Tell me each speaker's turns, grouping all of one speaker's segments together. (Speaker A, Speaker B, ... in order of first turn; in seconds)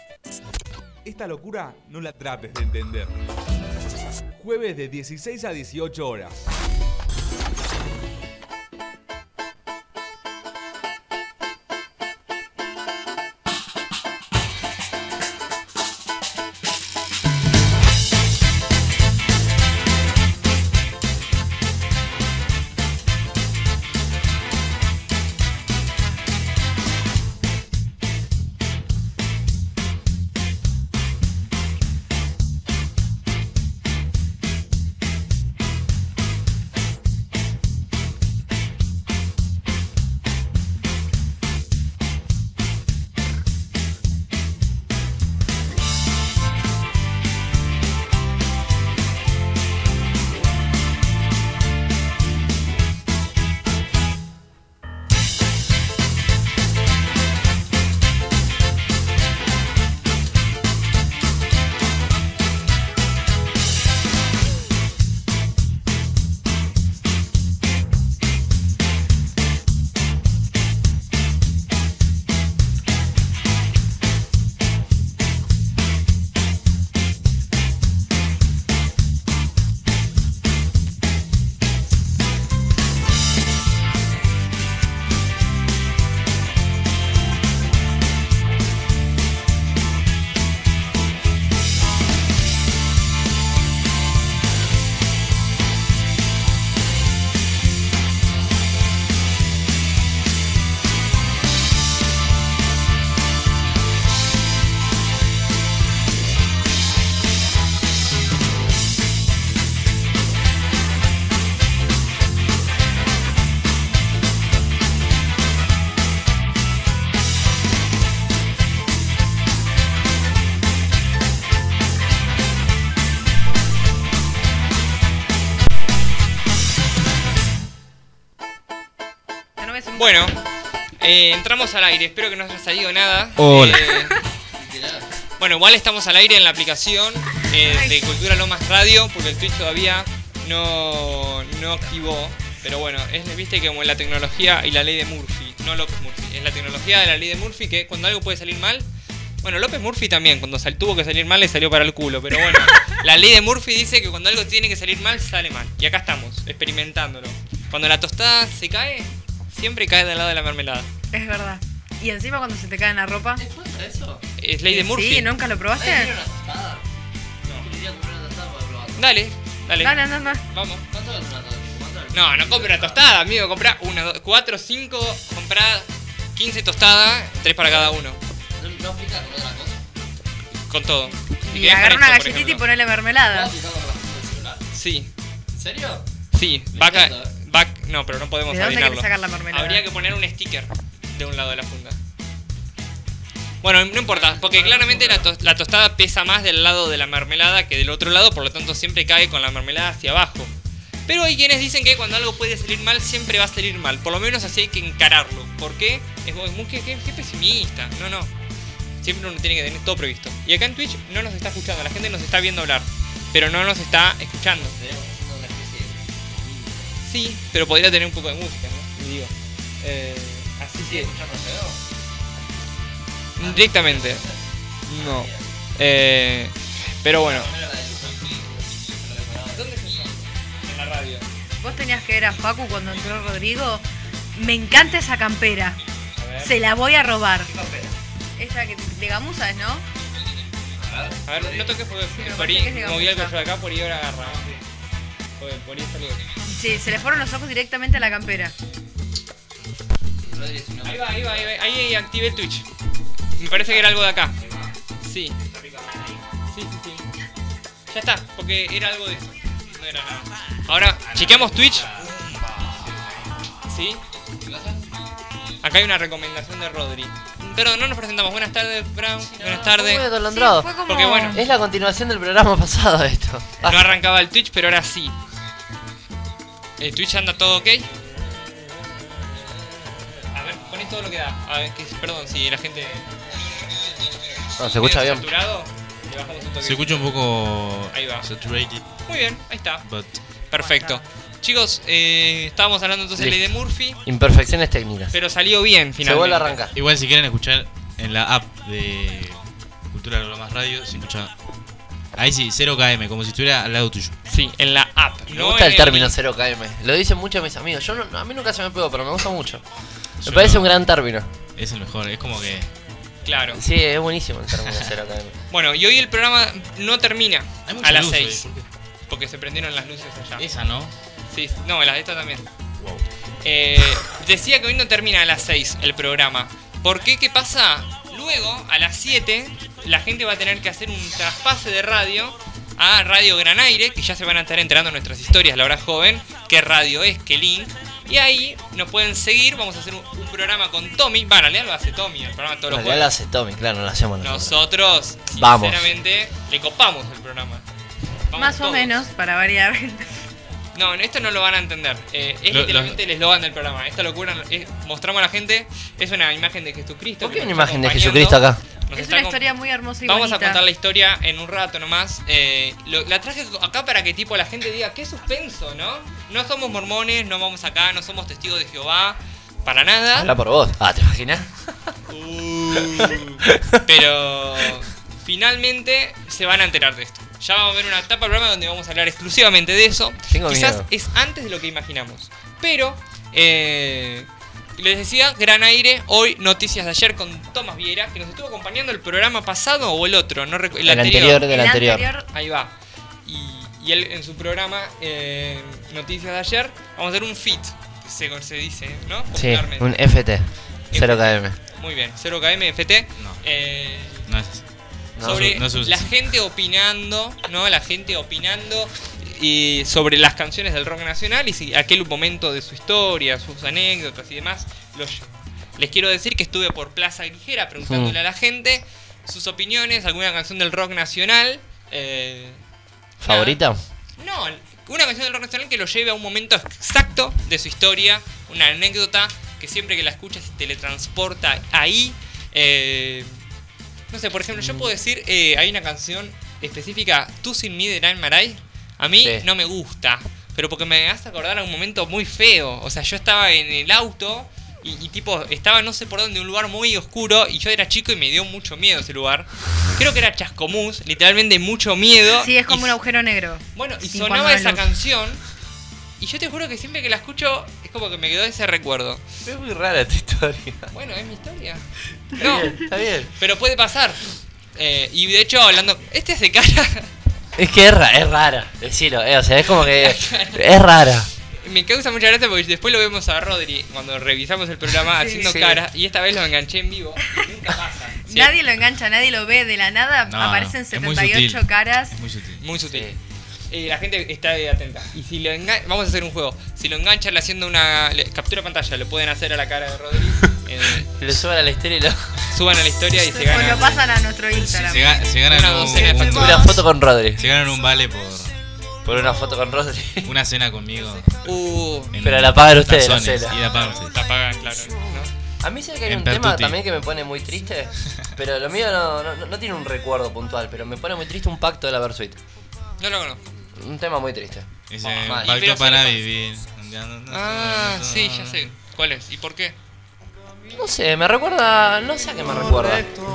Speaker A: 1.0-3.1, 4.4-6.4
Speaker B: 129.6-130.3, 137.6-137.9, 161.1-163.4, 164.7-166.1, 169.8-170.4, 181.5-183.6, 188.5-189.8, 231.6-235.8, 236.4-237.5, 238.4-239.8, 242.1-243.4, 246.4-248.5, 270.3-271.4, 290.6-291.0, 348.3-350.1, 358.9-360.6, 391.5-392.2, 452.3-454.9, 478.3-482.1, 493.2-495.2, 496.2-496.7
Speaker C: 130.0-130.4, 131.0-134.1, 135.4-148.9, 149.4-160.9, 164.4-165.3, 169.0-170.0, 170.5-170.8, 172.1-178.2, 180.7-182.6, 184.7-185.1, 186.3-192.0, 193.6-200.5, 201.1-208.3, 209.0-214.8, 217.1-221.1, 223.4-224.2, 224.9-227.5, 229.6-231.3, 236.2-236.6, 241.3-244.4, 245.4-246.2, 250.8-252.7, 253.4-254.3, 255.0-255.4, 256.5-257.1, 257.9-262.0, 263.7-264.0, 265.6-270.1, 270.9-271.4, 273.6-275.2, 276.8-277.9, 280.3-283.0, 284.6-287.1, 287.9-288.3, 289.0-289.9, 290.5-294.0, 295.1-296.6, 304.3-306.1, 313.2-313.6, 315.5-318.5, 319.1-320.5, 321.3-322.5, 323.4-343.1, 344.2-347.6, 348.3-349.0, 350.8-359.5, 360.0-370.3, 372.1-391.5, 392.3-392.7, 393.2-400.0, 400.9-404.3, 405.2-422.6, 423.2-423.6, 424.2-433.4, 434.1-453.0, 453.8-455.4, 456.2-459.2, 460.9-461.8, 462.4-462.8, 463.4-464.2, 464.8-467.1, 469.8-470.6, 471.6-478.5, 482.6-483.1, 483.7-491.1, 492.5-494.0, 495.4-496.6, 501.4-502.1, 503.7-505.3, 513.0-513.4, 515.0-516.2, 517.3-519.8
Speaker D: 133.4-133.8, 261.1-261.6, 286.6-289.0, 289.8-290.1, 296.7-301.3, 302.1-304.2, 310.2-310.8, 311.6-312.7, 317.6-318.7, 320.4-320.9, 322.8-323.0, 352.5-353.0, 403.2-403.4, 404.3-404.6, 405.2-406.1, 480.3-482.6, 494.7-498.6, 500.2-501.5, 502.1-504.2, 506.1-506.8, 514.9-518.7
Speaker E: 134.6-135.1, 170.9-172.8, 178.7-179.8, 183.3-184.7, 185.6-186.0, 186.7-187.3, 194.1-195.2, 214.8-216.7, 220.9-221.8, 223.6-224.1, 227.2-229.8, 237.5-237.9, 240.8-241.8, 244.2-244.6, 250.3-251.5, 254.4-254.7, 255.5-256.2, 261.9-263.1, 264.4-264.8
Speaker F: 163.4-164.2, 165.8-166.8, 167.6-169.0, 170.9-173.0, 178.6-179.1, 215.0-216.8, 220.9-221.7, 225.0-225.3, 269.3-270.8, 271.3-274.0, 284.6-285.3, 293.1-293.4, 294.0-295.1, 296.0-296.8, 305.3-309.6, 310.2-311.3, 313.5-315.3, 342.7-344.6, 345.3-345.9, 357.2-358.6, 370.1-371.9, 372.9-373.8, 380.3-380.9, 390.8-392.1, 399.3-401.6, 405.2-405.6, 417.9-418.2, 423.2-423.8, 434.5-434.9, 439.2-439.4, 459.4-460.9, 462.4-463.3, 467.6-471.3, 475.3-475.8, 482.9-483.2, 491.0-492.4, 496.3-497.4, 499.0-500.3, 502.2-503.6, 505.6-512.4, 513.8-514.7, 515.2-515.6, 520.7-523.1